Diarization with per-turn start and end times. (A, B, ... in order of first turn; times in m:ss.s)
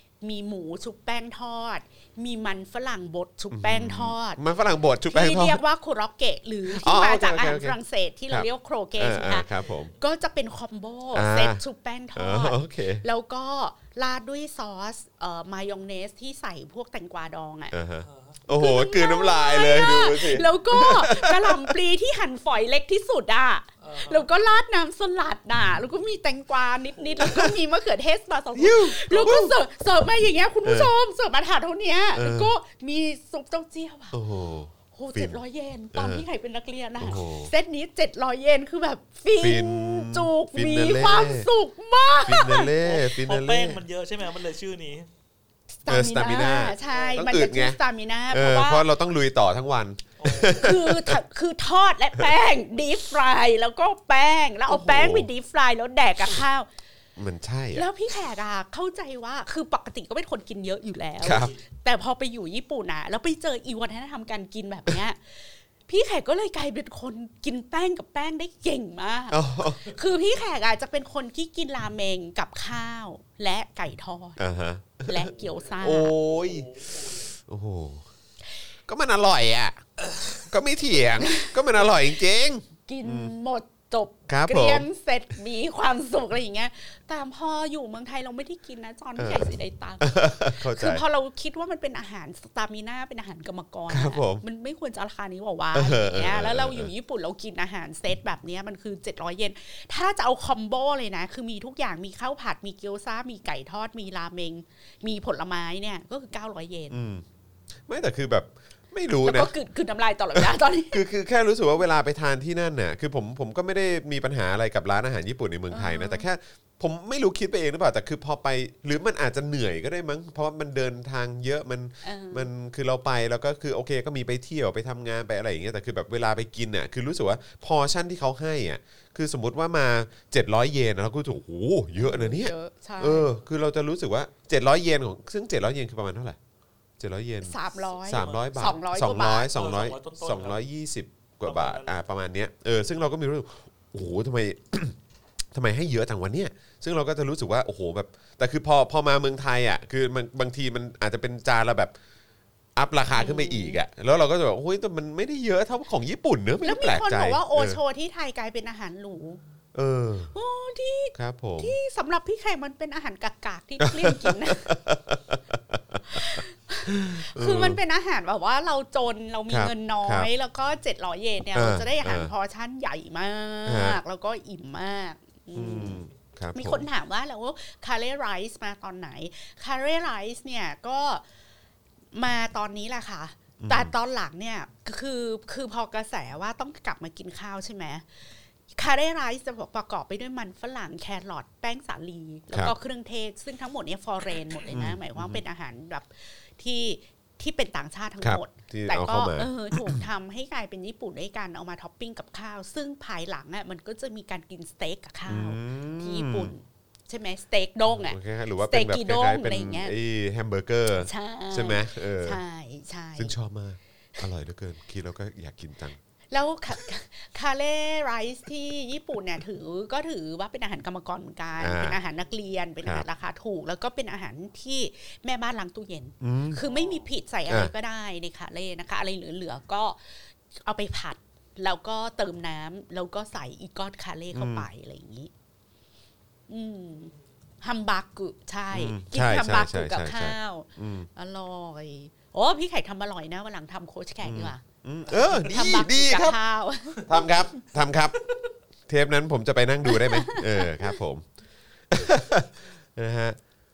0:00.2-0:04.4 A
0:03.5-0:05.6 B
0:05.1-0:17.8 A
0:06.6-0:07.8 B
0:08.3-0:09.9 B
0:11.1-0:11.6 B
0:12.1-0:13.0 B
0:17.7-0:21.7 B
0:18.0-0:18.4 C
0:18.5-0:34.2 A
0:23.8-0:24.2 C
0:27.2-0:27.5 B
0:28.6-0:29.6 B
0:30.6-0:30.9 B
0:32.1-0:32.5 B
0:34.1-0:35.4 B
0:34.9-0:42.7 A
0:35.9-0:36.2 B
0:37.0-0:37.5 B
0:39.4-0:41.5 B
0:42.2-0:43.8 B
0:42.8-0:45.1 C
0:45.8-0:48.8 A
0:45.9-0:47.8 B
0:46.9-0:47.2 C
0:48.3-0:51.2 B
0:50.2-0:50.6 C
0:50.5-0:56.7 A
0:54.7-0:55.3 B
0:57.2-0:57.8 B
0:57.7-1:14.4 A
1:01.2-1:01.5 B
1:09.3-1:09.9 B
1:14.4-1:16.7 B
1:15.0-1:16.1 A
1:16.3-1:17.2 C
1:17.3-1:18.0 B
1:18.9-1:19.8 B
1:20.3-1:23.3 B
1:21.2-1:21.5 A
1:22.8-1:47.0 A
1:24.3-1:24.9 B
1:29.2-1:31.0 B
1:33.9-1:34.4 B
1:35.7-1:36.9 B
1:46.9-1:47.2 B
1:47.9-1:49.5 B
1:49.2-1:51.0 A
1:50.3-2:16.4 B
1:55.7-1:56.2 A
2:02.0-2:02.5 A
2:12.0-2:13.3 A
2:17.0-2:25.0 B
2:17.4-2:19.5 A
2:18.1-2:18.5 C
2:19.5-2:20.6 C
2:21.4-2:22.0 C
2:25.5-2:31.9 B
2:32.8-2:37.8 B
2:33.1-2:33.8 A
2:36.6-2:39.4 A
2:39.7-2:40.3 B
2:40.3-2:44.7 A
2:41.1-2:41.8 B
2:43.8-2:47.8 B
2:46.1-2:56.0 A
2:49.5-2:50.3 B
2:51.5-2:52.3 B
2:53.6-2:54.0 B
2:55.5-2:56.9 B
2:56.5-3:01.2 A
3:02.1-3:29.9 A
3:03.6-3:03.9 B
3:14.7-3:15.4 B
3:18.2-3:20.0 B
3:25.3-3:26.5 B
3:28.0-3:32.4 B
3:31.0-3:33.3 A
3:33.2-3:36.0 B
3:36.3-3:50.0 A
3:41.6-3:42.0 B
3:46.2-3:46.6 B
3:46.7-3:47.0 C
3:50.5-3:55.3 A
3:54.3-3:54.7 B
3:56.5-4:07.3 A
3:58.7-4:01.1 B
4:04.2-4:06.4 B
4:07.0-4:08.2 B
4:08.9-4:11.2 B
4:09.8-4:10.9 A
4:11.9-4:13.4 B